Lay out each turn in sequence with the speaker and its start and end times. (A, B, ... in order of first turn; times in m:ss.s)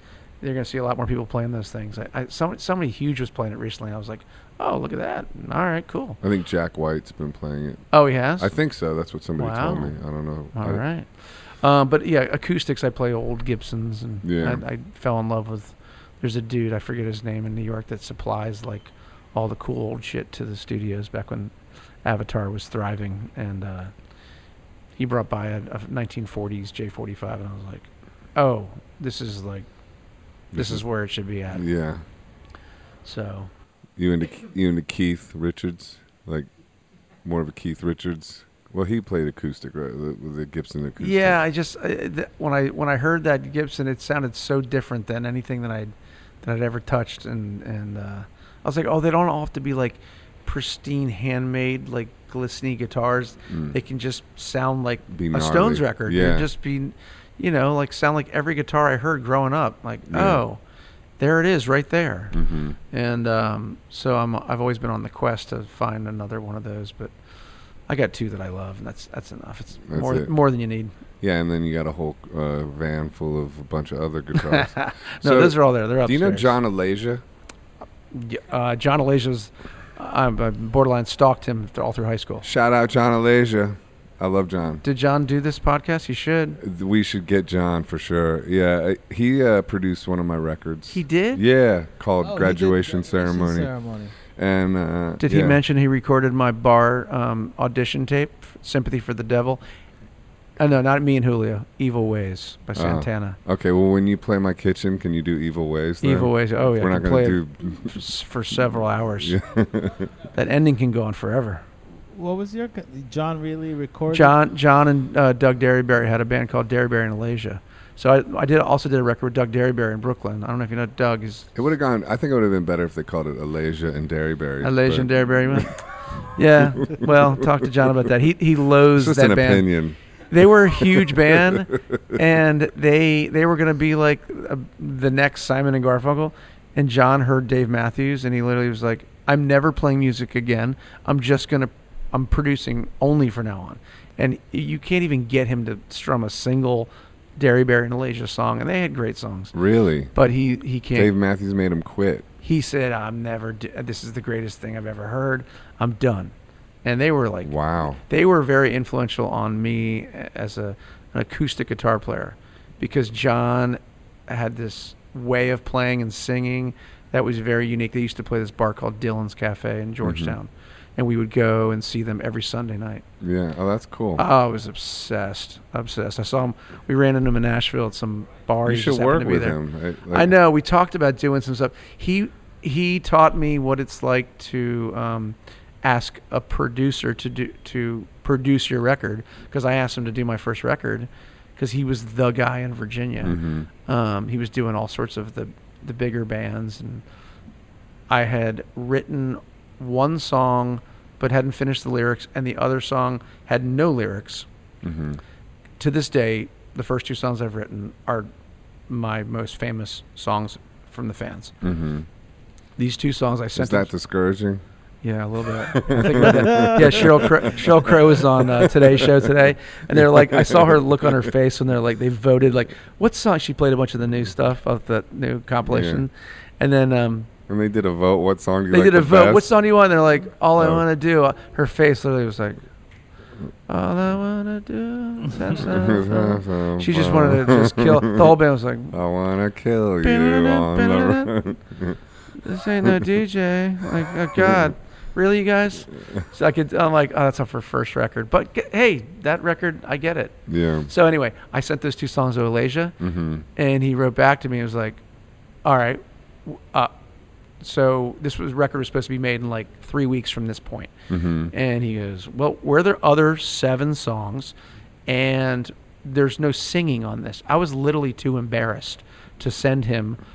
0:00.4-0:06.2 A
0:06.2-0:07.8 B
0:07.9-0:08.6 A
0:08.4-0:10.8 B
0:09.4-0:10.0 A
0:10.5-0:23.9 A
0:14.2-0:14.6 B
0:25.0-0:29.6 A
0:30.5-0:30.8 B
0:30.5-0:31.6 A
0:31.5-0:32.0 B
0:33.0-0:33.5 A
0:34.0-0:36.5 B
0:37.2-0:41.4 B
0:41.0-1:00.6 A
0:53.5-0:53.8 B
0:55.1-0:56.5 B
1:00.1-1:00.4 B
1:01.2-1:02.4 A
1:02.3-1:02.8 B
1:02.9-1:07.1 A
1:07.9-1:10.9 A
1:09.9-1:10.3 B
1:11.2-1:17.2 B
1:14.4-1:16.5 A
1:18.1-1:22.4 A
1:22.4-1:24.8 B
1:24.8-1:26.6 A
1:26.6-1:33.7 B
1:30.9-1:31.4 A
1:32.2-1:34.1 C
1:34.3-1:35.6 B
1:35.2-1:39.6 A
1:40.6-1:43.4 A
1:42.8-1:48.0 B
1:46.0-1:49.4 A
1:49.2-1:50.1 B
1:50.3-1:51.6 A
1:52.1-1:54.4 C
1:54.1-2:01.5 A
2:01.5-2:05.7 B
2:04.6-2:09.7 A
2:06.8-2:07.1 B
2:08.9-2:10.0 B
2:10.3-2:29.5 A
2:10.8-2:12.2 B
2:29.5-2:30.1 B
2:30.1-2:31.1 A
2:30.9-2:32.3 B
2:32.4-2:53.0 A
2:37.4-2:38.0 B
2:50.0-2:50.3 B
2:53.2-2:54.2 B
2:54.2-2:59.6 A
2:58.6-3:00.3 B
3:00.1-3:17.0 A
3:13.2-3:13.7 B
3:18.1-3:24.4 A
3:24.8-3:25.2 B
3:25.8-3:28.3 A
3:28.9-3:31.5 A
3:31.6-3:32.1 B
3:32.8-3:33.9 A
3:33.6-3:34.6 B
3:35.0-3:47.3 A
3:35.7-3:37.8 B
3:38.4-3:39.2 B
3:39.9-3:41.3 B
3:45.6-3:46.0 B
3:47.5-3:49.5 B
3:48.7-3:52.6 A
3:50.6-3:50.8 B
3:53.7-3:59.0 A
3:55.6-3:58.4 B
3:58.9-4:02.0 B
4:00.0-4:01.4 A
4:02.4-4:13.0 A
4:04.3-4:04.7 B
4:10.5-4:10.9 B
4:13.0-4:13.4 B
4:13.6-4:15.0 A
4:15.6-4:16.9 A
4:17.6-4:20.9 A
4:21.1-4:21.5 B
4:21.5-4:24.5 A
4:25.1-4:30.2 A